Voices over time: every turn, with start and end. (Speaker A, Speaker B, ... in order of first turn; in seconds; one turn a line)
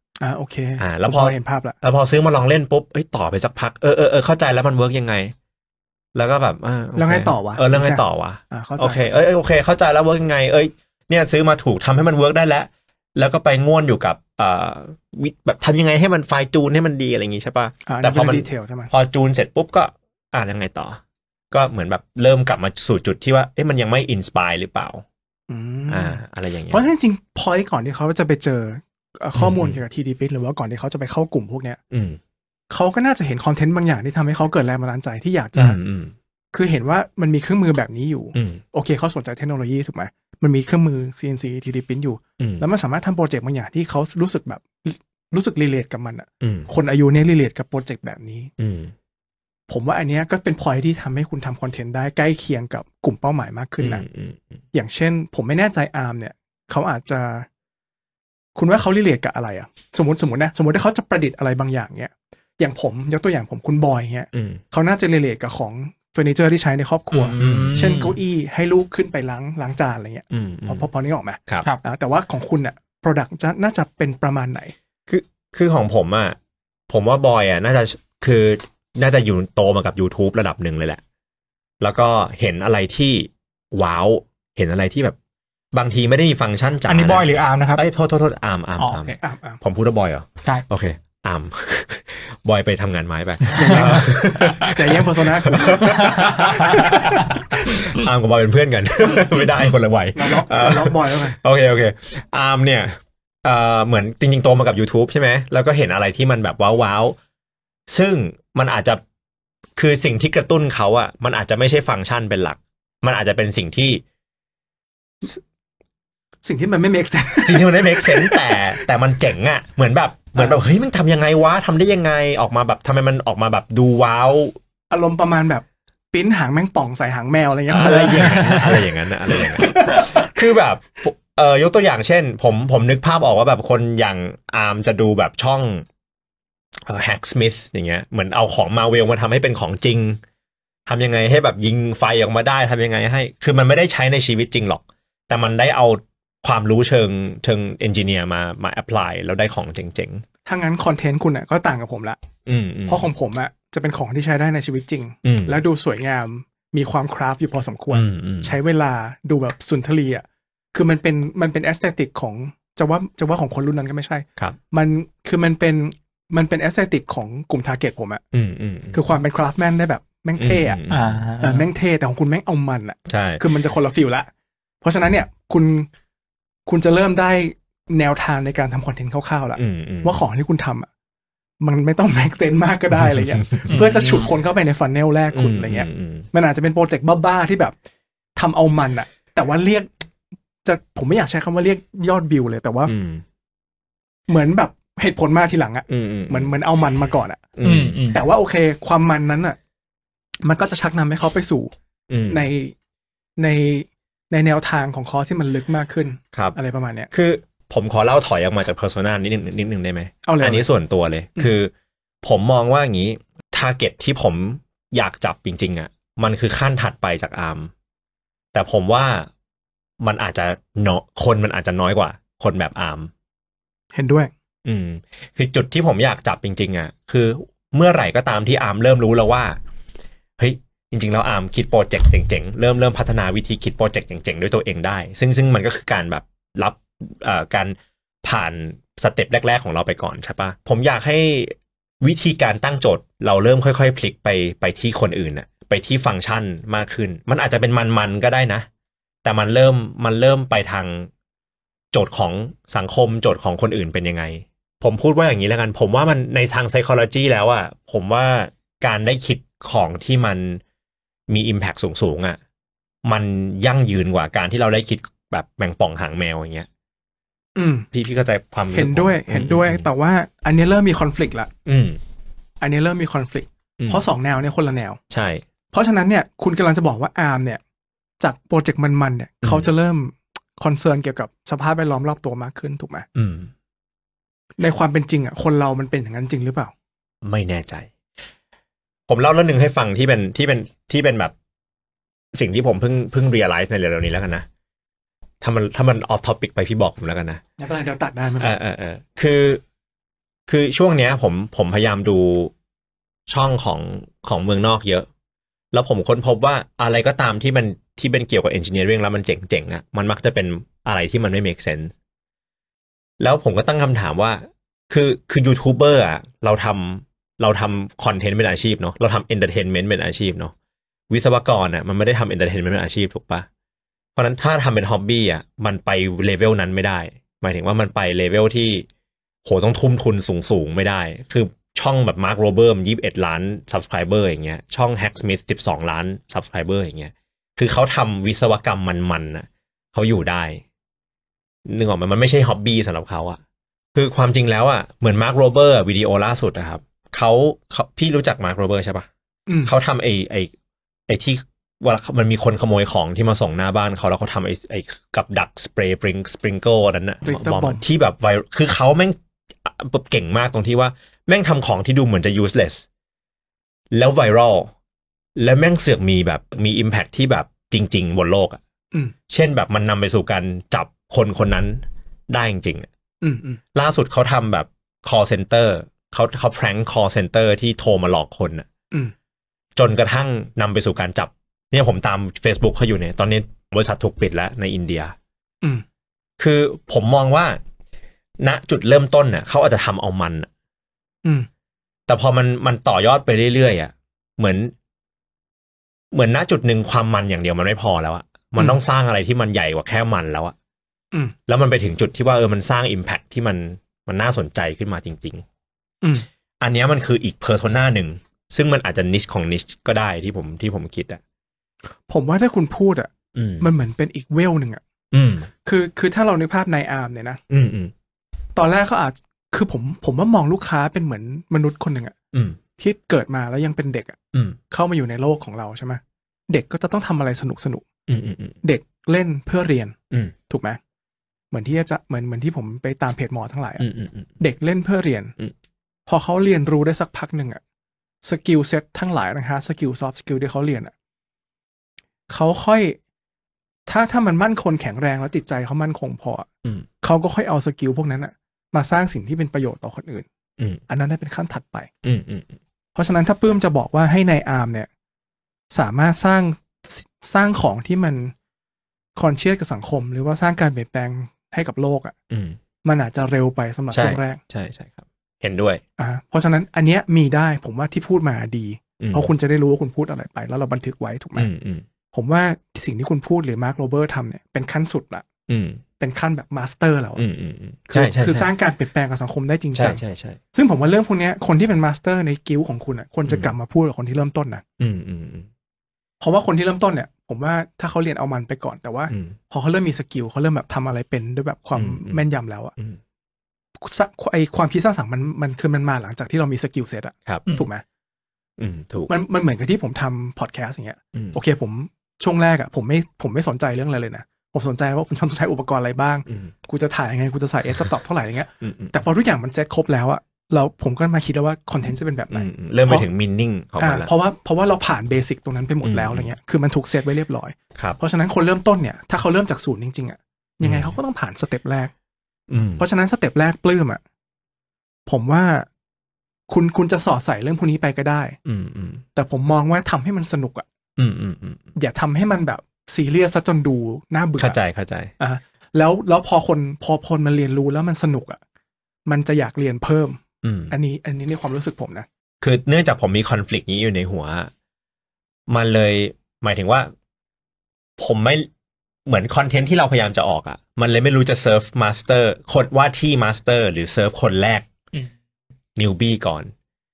Speaker A: 0.2-1.8
Speaker B: 0.8-5.3
Speaker B: 6.2-21.0
Speaker A: 7.0-9.2
Speaker A: 17.9-18.9
Speaker B: 21.5-25.0
Speaker A: 25.5-31.8
Speaker B: 25.9-26.8
Speaker B: 29.4-29.8
Speaker B: 31.9-32.2
Speaker A: 32.7-35.8
Speaker B: 35.6-36.2
Speaker A: 36.5-48.5
Speaker B: 38.4-38.6
Speaker B: 42.4-42.6
Speaker B: 46.4-46.7
Speaker B: 48.6-48.9
Speaker A: 49.7-54.0
Speaker B: 53.8-54.6
Speaker A: 54.7-57.5
Speaker A: 58.5-74.7
Speaker B: 64.3-64.6
Speaker C: 67.1-68.2
Speaker B: 67.4-68.1
Speaker B: 70.3-70.9
Speaker B: 75.1-76.4
Speaker B: 76.9-81.0
Speaker B: 81.8-85.2
Speaker B: 85.7-107.2
Speaker C: 86.9-87.8
Speaker C: 88.8-89.2
Speaker A: 89.2-89.6
Speaker A: 93.5-96.0
Speaker C: 93.6-94.0
Speaker C: 95.7-97.3
Speaker A: 100.2-101.4
Speaker B: 107.9-109.0
Speaker B: 109.8-114.0
Speaker A: 116.5-118.8
Speaker B: 117.4-124.6
Speaker A: 124.9-128.8
Speaker B: 127.7-135.9
Speaker C: 128.1-128.7
Speaker A: 129.4-130.3
Speaker B: 136.9-140.2
Speaker B: 140.9-150.2
Speaker A: 150.5-152.2
Speaker B: 152.5-153.1
Speaker A: 152.9-168.2
Speaker B: 155.2-155.6
Speaker B: 157.9-158.5
Speaker B: 168.3-169.0
Speaker A: 168.9-170.8
Speaker B: 170.4-171.2
Speaker C: 170.9-171.7
Speaker A: 171.4-174.3
Speaker B: 173.1-173.4
Speaker A: 174.8-175.9
Speaker A: 176.7-180.9
Speaker B: 179.6-180.2
Speaker A: 181.6-187.8
Speaker B: 183.0-183.8
Speaker C: 183.7-184.3
Speaker B: 185.3-186.3
Speaker A: 188.4-189.9
Speaker A: 190.6-192.9
Speaker B: 192.9-193.2
Speaker A: 194.3-197.5
Speaker B: 195.9-196.5
Speaker B: 197.6-198.0
Speaker C: 197.6-198.2
Speaker A: 198.1-199.6
Speaker A: 200.4-201.7
Speaker B: 202.1-202.5
Speaker A: 202.3-202.8
Speaker A: 203.4-207.1
Speaker B: 207.1-211.7
Speaker A: 210.3-210.7
Speaker B: 212.2-217.7
Speaker B: 218.5-219.3
Speaker B: 220.0-223.1
Speaker A: 223.9-224.3
Speaker B: 224.7-229.6
Speaker B: 230.4-248.7
Speaker B: 249.2-251.1
Speaker B: 251.9-260.6
Speaker B: 261.3-262.4
Speaker B: 263.0-266.7
Speaker A: 267.6-267.9
Speaker B: 267.9-269.9
Speaker A: 268.7-271.5
Speaker B: 271.7-272.0
Speaker A: 272.6-275.0
Speaker B: 273.8-274.0
Speaker B: 275.1-275.4
Speaker A: 275.7-277.6
Speaker A: 278.2-283.1
Speaker B: 279.4-279.7
Speaker B: 283.1-283.5
Speaker A: 284.6-286.7
Speaker B: 287.2-287.9
Speaker B: 289.1-291.3
Speaker B: 292.3-294.5
Speaker B: 295.4-297.4
Speaker A: 297.6-298.6
Speaker B: 298.4-299.6
Speaker B: 300.5-302.5
Speaker B: 303.3-305.1
Speaker B: 305.7-311.9
Speaker B: 313.2-320.5
Speaker B: 321.1-323.5
Speaker B: 324.2-328.9
Speaker B: 329.4-340.6
Speaker B: 341.7-343.4
Speaker B: 343.9-349.1
Speaker A: 349.5-349.7
Speaker B: 349.6-350.5
Speaker B: 351.1-362.8
Speaker A: 357.2-357.8
Speaker B: 363.9-364.7
Speaker B: 365.4-368.6
Speaker B: 369.3-372.9
Speaker A: 373.2-373.6
Speaker B: 373.7-378.7
Speaker B: 379.8-385.1
Speaker B: 386.4-387.6
Speaker B: 388.4-390.5
Speaker B: 392.1-394.7
Speaker B: 396.1-400.6
Speaker B: 401.5-405.4
Speaker B: 406.6-411.2
Speaker A: 412.1-413.1
Speaker B: 413.4-413.7
Speaker A: 413.6-414.8
Speaker B: 415.1-415.5
Speaker A: 415.6-417.4
Speaker B: 417.5-417.9
Speaker A: 418.6-422.1
Speaker B: 422.3-422.6
Speaker A: 422.8-424.2
Speaker A: 424.7-427.9
Speaker B: 428.1-428.6
Speaker A: 428.6-429.9
Speaker A: 430.5-430.8
Speaker A: 431.5-433.9
Speaker B: 433.8-434.3
Speaker A: 434.4-435.4
Speaker A: 436.1-437.6
Speaker A: 438.2-440.9
Speaker A: 442.3-443.0
Speaker A: 443.9-446.5
Speaker A: 447.0-450.3
Speaker A: 450.9-451.9
Speaker B: 452.0-452.6
Speaker A: 452.9-454.9
Speaker A: 455.7-458.3
Speaker A: 459.2-462.1
Speaker B: 462.3-462.6
Speaker A: 462.8-464.4
Speaker B: 463.9-465.8
Speaker A: 466.0-471.5
Speaker B: 469.0-469.3
Speaker B: 471.4-471.9
Speaker A: 472.1-475.2
Speaker B: 475.5-475.8
Speaker A: 476.0-477.2
Speaker B: 477.2-478.5
Speaker A: 477.9-480.0
Speaker B: 479.8-480.4
Speaker A: 480.5-484.6
Speaker B: 483.3-483.5
Speaker B: 484.8-485.5
Speaker A: 486.2-492.7
Speaker B: 489.1-489.4
Speaker B: 491.8-492.2
Speaker A: 493.8-497.8
Speaker B: 498.6-499.1
Speaker A: 499.1-513.1
Speaker B: 508.6-508.9
Speaker B: 512.3-514.1
Speaker A: 513.8-521.9
Speaker B: 515.8-516.3
Speaker B: 520.6-520.9
Speaker B: 522.5-522.8
Speaker A: 522.8-524.0
Speaker A: 525.1-525.7
Speaker A: 526.5-528.4
Speaker B: 528.5-529.0
Speaker A: 529.1-530.6
Speaker B: 531.0-531.7
Speaker A: 531.8-534.6
Speaker B: 534.4-535.1
Speaker A: 535.2-538.4
Speaker A: 539.1-542.1
Speaker B: 540.4-540.7
Speaker B: 542.4-544.5
Speaker B: 545.5-546.9
Speaker B: 548.0-548.5
Speaker B: 549.1-554.7
Speaker B: 555.8-556.5